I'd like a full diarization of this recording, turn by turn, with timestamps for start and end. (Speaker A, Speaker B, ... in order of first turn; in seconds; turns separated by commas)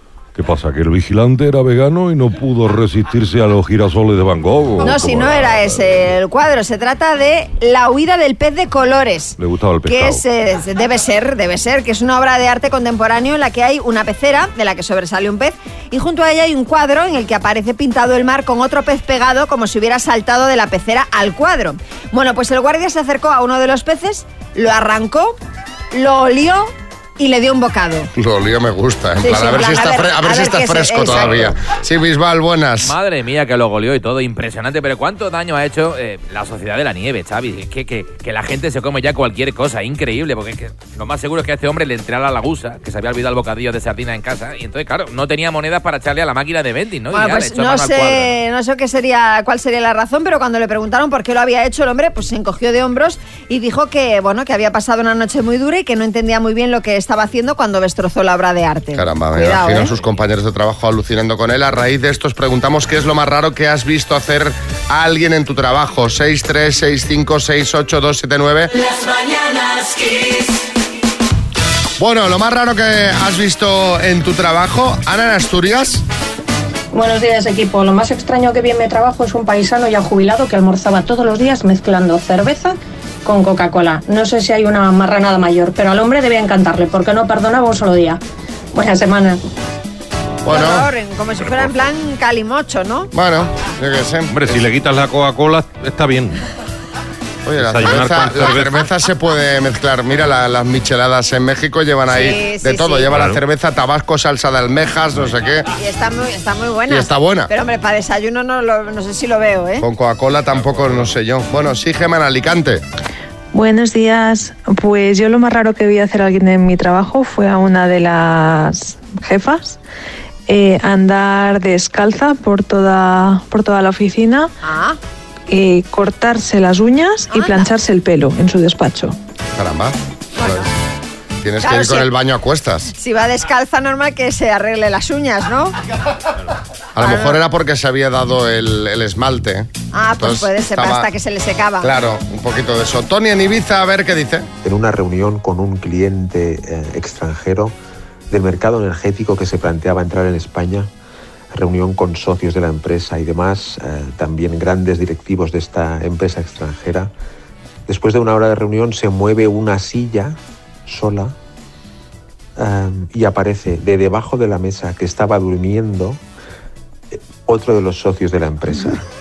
Speaker A: 0.3-5.7, Speaker B: 4.8-25.4, Speaker A: 9.4-10.2, Speaker B: 25.9-28.1, Speaker C: 28.1-32.9, Speaker B: 29.2-31.6, Speaker D: 32.8-48.3, Speaker B: 47.1-59.9, Speaker C: 58.9-68.8, Speaker C: 72.0-76.0, Speaker E: 76.9-88.2, Speaker E: 88.7-89.4, Speaker C: 90.4-90.9, Speaker B: 90.5-93.1, Speaker C: 93.1-94.3, Speaker F: 94.3-96.4, Speaker C: 97.4-105.7, Speaker F: 97.5-98.9, Speaker B: 102.1-103.2, Speaker F: 103.1-103.4, Speaker B: 105.8-109.8, Speaker C: 106.9-107.5, Speaker C: 109.8-112.8, Speaker G: 113.5-119.8, Speaker G: 120.5-124.5, Speaker B: 124.6-125.0, Speaker G: 125.5-129.2, Speaker C: 129.5-130.7, Speaker B: 130.4-130.7, Speaker C: 131.4-132.9, Speaker B: 131.6-132.1, Speaker B: 132.9-135.7, Speaker C: 136.9-141.1, Speaker B: 137.0-137.4, Speaker B: 139.9-141.9, Speaker C: 141.8-144.5, Speaker H: 144.6-147.7, Speaker H: 148.3-150.9, Speaker H: 151.5-157.1, Speaker H: 157.9-161.3, Speaker H: 162.6-166.2, Speaker H: 167.1-169.0